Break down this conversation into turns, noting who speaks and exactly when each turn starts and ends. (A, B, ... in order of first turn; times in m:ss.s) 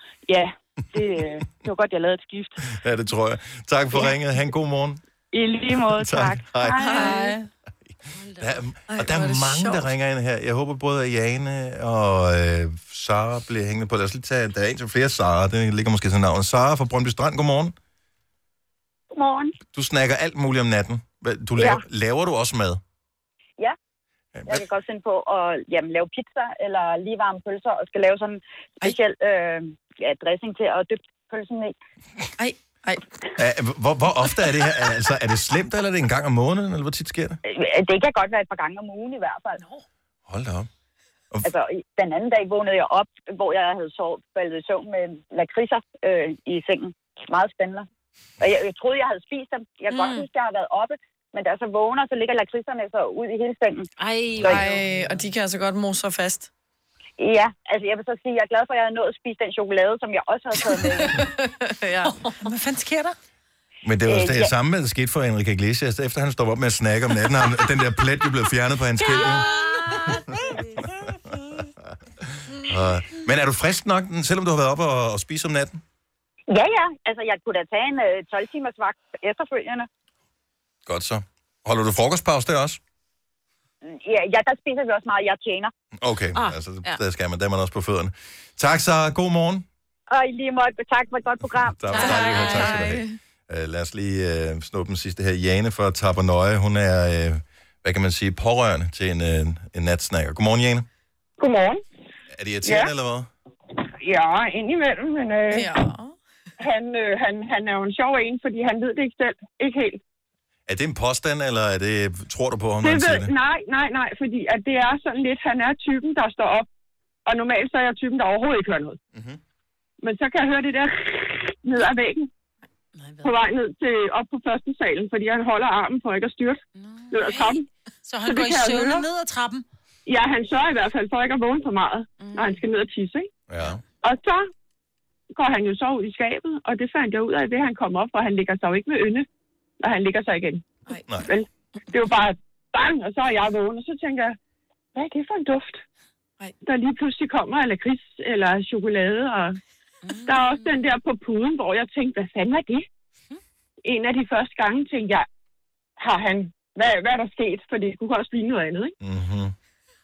0:00.3-0:02.6 A
0:02.7-0:05.0 B
0:05.3-0:07.2 A
0:06.0-0:07.1 B
0:06.7-0:07.4 C
0:06.8-0:07.3 D
0:08.1-0:08.6 D
0:08.4-0:17.7 B
0:08.9-0:09.9 C
0:19.1-0:19.5 E
0:19.7-0:22.8 B
0:21.6-0:21.8 E
0:24.4-0:24.6 B
0:24.5-0:31.7 E
0:32.4-0:33.0 C
0:33.4-0:37.4 B
0:37.4-0:39.6 E
0:40.3-0:40.7 B
0:41.4-0:47.8 E
0:48.4-0:53.9 E
0:54.0-0:55.2 D
0:54.4-0:56.5 C
0:57.2-1:01.2 E
1:00.8-1:02.1 C
1:02.4-1:03.2 F
1:03.8-1:09.5 B
1:04.0-1:04.5 E
1:12.5-1:15.8 B
1:16.5-1:19.9 E
1:20.8-1:22.8 B
1:23.8-1:25.7 E
1:26.0-1:29.6 B
1:26.3-1:27.0 D
1:30.1-1:32.2 E
1:31.8-1:40.8 B
1:31.9-1:32.8 D
1:31.9-1:33.2 C
1:41.4-1:41.8 G
1:42.3-1:43.3 B
1:44.0-1:45.6 G
1:45.4-1:46.2 C
1:46.6-1:50.0 G
1:50.7-1:53.3 B
1:52.8-1:56.6 G
1:57.3-1:59.0 G
2:00.0-2:02.3 G
2:03.2-2:06.6 G
2:06.8-2:07.5 D
2:07.1-2:07.6 G
2:08.0-2:09.6 F
2:08.4-2:09.0 G
2:10.1-2:13.3 G
2:12.2-2:12.6 D
2:13.5-2:13.8 B
2:14.0-2:14.4 G
2:15.3-2:19.2 G
2:19.8-2:20.6 G
2:21.0-2:21.3 B
2:21.9-2:24.3 G
2:25.0-2:25.8 G
2:26.4-2:26.6 C
2:26.6-2:29.6 G
2:30.0-2:30.8 D
2:30.3-2:30.7 C
2:30.3-2:32.8 G
2:33.8-2:35.2 G
2:36.0-2:38.9 G
2:39.0-2:39.5 B